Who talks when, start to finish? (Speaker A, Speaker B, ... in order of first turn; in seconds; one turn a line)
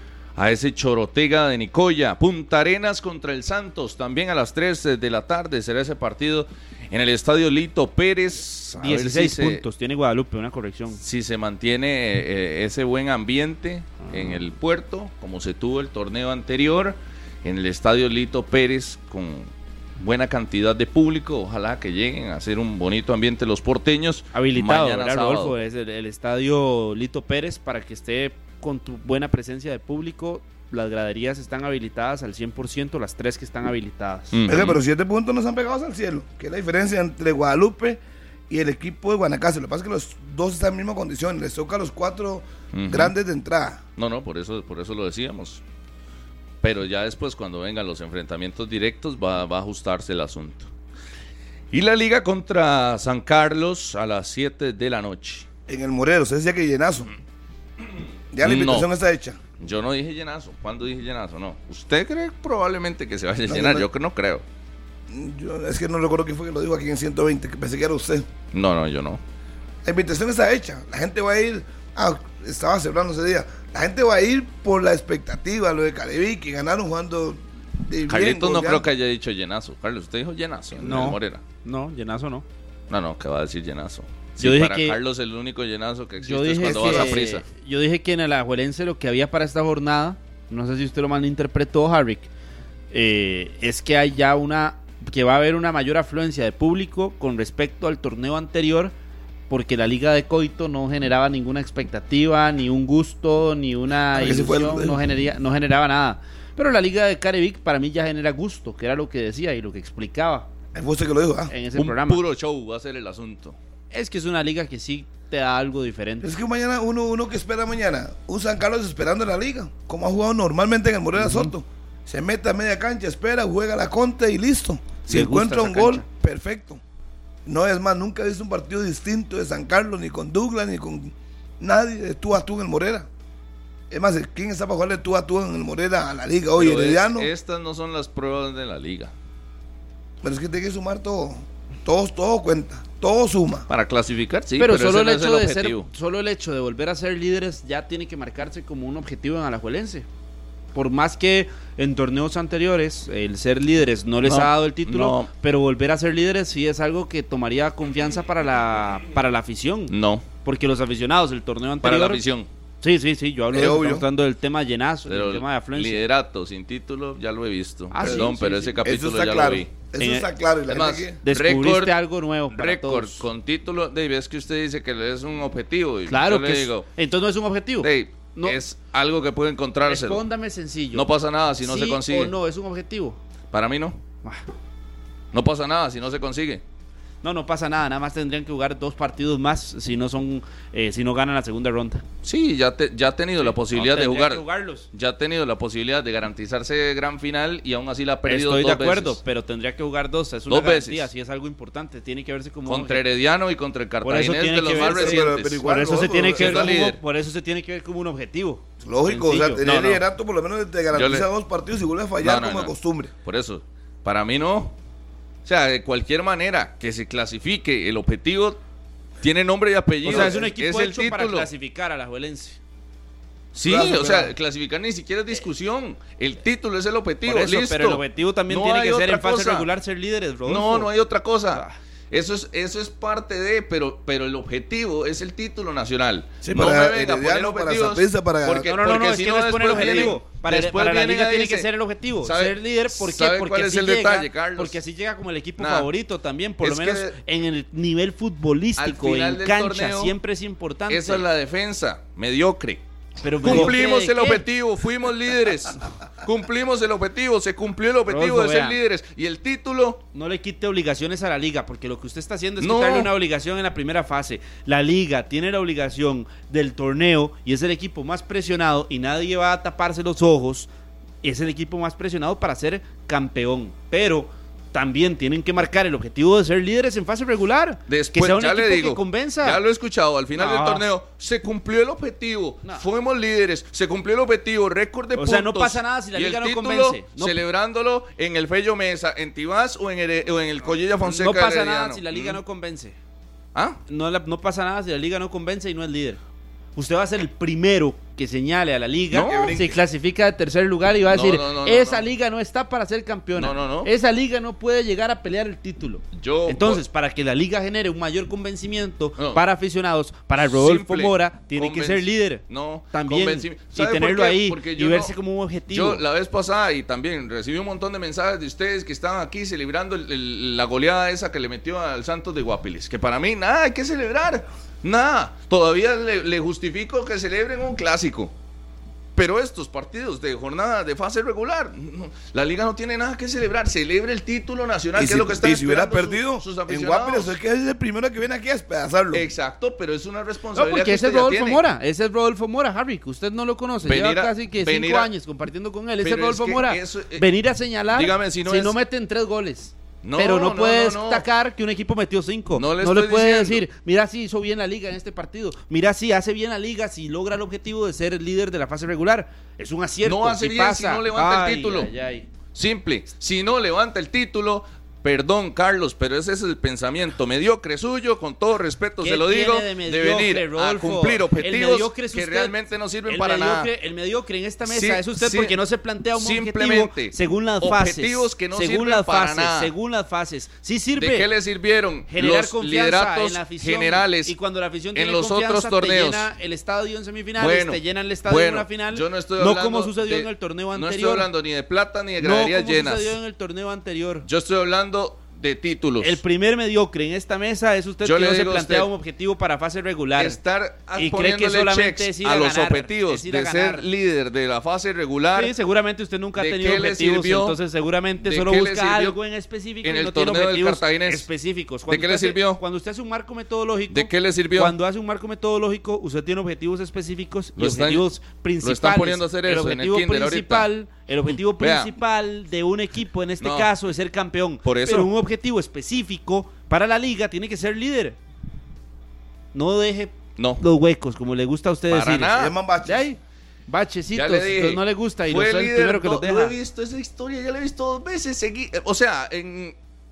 Speaker A: 0.3-9.6
Speaker B: 8.8-11.0
Speaker A: 11.0-25.5
Speaker B: 24.3-34.4
Speaker A: 34.3-34.8
Speaker C: 34.5-43.8
Speaker A: 42.7-43.1
Speaker A: 44.0-45.6
Speaker A: 46.6-50.7
Speaker A: 51.7-55.5
Speaker C: 55.7-57.1
Speaker C: 58.3-59.4
Speaker A: 58.4-58.9
Speaker A: 59.6-64.4
Speaker C: 63.5-63.8
Speaker C: 65.1-68.3
Speaker A: 68.5-69.2
Speaker C: 69.8-78.9
Speaker A: 78.1-81.4
Speaker B: 80.8-82.4
Speaker A: 82.9-87.4
Speaker B: 84.4-85.0
Speaker B: 86.2-92.3
Speaker C: 86.6-87.2
Speaker B: 92.9-98.9
Speaker B: 99.5-110.5
Speaker C: 104.1-105.0
Speaker C: 110.7-111.5
Speaker B: 111.5-112.2
Speaker A: 111.7-113.5
Speaker B: 113.9-116.3
Speaker C: 116.2-126.8
Speaker B: 121.2-121.5
Speaker B: 125.1-126.0
Speaker C: 127.5-133.1
Speaker C: 133.9-137.3
Speaker A: 136.6-139.1
Speaker C: 140.2-143.7
Speaker A: 143.7-145.9
Speaker B: 144.6-150.1
Speaker B: 150.7-162.2
Speaker A: 154.2-155.3
Speaker A: 159.9-160.2
Speaker A: 161.8-162.5
Speaker B: 162.8-166.0
Speaker C: 163.5-164.1
Speaker A: 165.1-169.7
Speaker B: 167.9-168.8
Speaker C: 168.0-168.3
Speaker C: 168.8-171.2
Speaker B: 170.0-170.3
Speaker A: 170.7-172.0
Speaker B: 171.2-173.2
Speaker A: 172.5-176.9
Speaker B: 176.1-178.6
Speaker A: 177.8-180.2
Speaker B: 179.8-181.1
Speaker A: 180.9-182.3
Speaker B: 181.6-183.2
Speaker A: 183.5-184.0
Speaker A: 185.3-186.6
Speaker B: 187.2-192.0
Speaker A: 192.2-199.2
Speaker B: 193.4-194.9
Speaker B: 198.3-203.0
Speaker A: 200.5-201.1
Speaker A: 202.7-205.7
Speaker B: 204.0-209.7
Speaker C: 204.7-206.7
Speaker A: 206.2-207.0
Speaker C: 208.8-213.1
Speaker A: 209.6-210.0
Speaker A: 210.9-211.2
Speaker A: 212.2-214.7
Speaker A: 215.4-218.6
Speaker A: 219.2-221.5
Speaker B: 220.0-222.6
Speaker C: 220.1-220.5
Speaker A: 223.5-229.7
Speaker C: 223.6-224.3
Speaker B: 227.2-230.9
Speaker A: 230.4-241.7
Speaker C: 236.4-238.7
Speaker B: 238.6-251.2
Speaker C: 239.7-240.2
Speaker A: 242.2-244.8
Speaker A: 245.6-245.9
Speaker A: 246.6-247.2
Speaker A: 248.8-250.1
Speaker A: 250.9-252.8
Speaker B: 253.2-254.4
Speaker A: 253.4-260.0
Speaker B: 258.1-258.8
Speaker B: 260.1-270.7
Speaker A: 262.6-263.1
Speaker B: 271.2-279.6
Speaker A: 277.9-292.4
Speaker B: 280.3-280.8
Speaker B: 285.1-287.4
Speaker B: 291.0-292.9
Speaker B: 293.9-296.2
Speaker B: 296.8-316.0
Speaker A: 299.1-299.6
Speaker C: 299.2-299.7
Speaker A: 301.1-302.1
Speaker A: 303.4-303.9
Speaker A: 306.1-306.8
Speaker A: 310.4-315.1
Speaker A: 315.7-328.3
Speaker A: 329.1-337.3
Speaker C: 334.9-339.2
Speaker A: 339.1-341.6
Speaker B: 340.5-362.3
Speaker A: 343.8-345.1
Speaker A: 346.0-347.2
Speaker A: 347.9-348.7
Speaker A: 350.0-351.2
Speaker A: 352.6-353.6
Speaker A: 360.0-361.9
Speaker A: 362.5-373.7
Speaker B: 369.0-372.5
Speaker B: 373.1-381.3
Speaker A: 374.6-375.6
Speaker A: 376.1-379.7
Speaker A: 381.0-384.3
Speaker B: 382.1-391.3
Speaker A: 384.9-386.3
Speaker A: 387.4-393.2
Speaker B: 392.2-394.2
Speaker A: 394.2-396.2
Speaker B: 396.0-400.4
Speaker A: 398.0-398.9
Speaker A: 400.2-405.5
Speaker B: 400.9-403.8
Speaker B: 405.3-428.2
Speaker A: 406.4-407.6
Speaker A: 408.2-409.2
Speaker A: 409.8-411.2
Speaker A: 411.9-412.6
Speaker A: 413.9-414.7
Speaker A: 417.6-418.1
Speaker A: 418.6-420.7
Speaker A: 421.4-421.9
Speaker A: 423.4-423.7
Speaker A: 424.6-425.1
Speaker B: 429.5-432.3
Speaker A: 430.4-430.6
Speaker A: 431.9-432.5
Speaker C: 432.3-433.1
Speaker B: 432.8-436.5
Speaker A: 434.1-439.7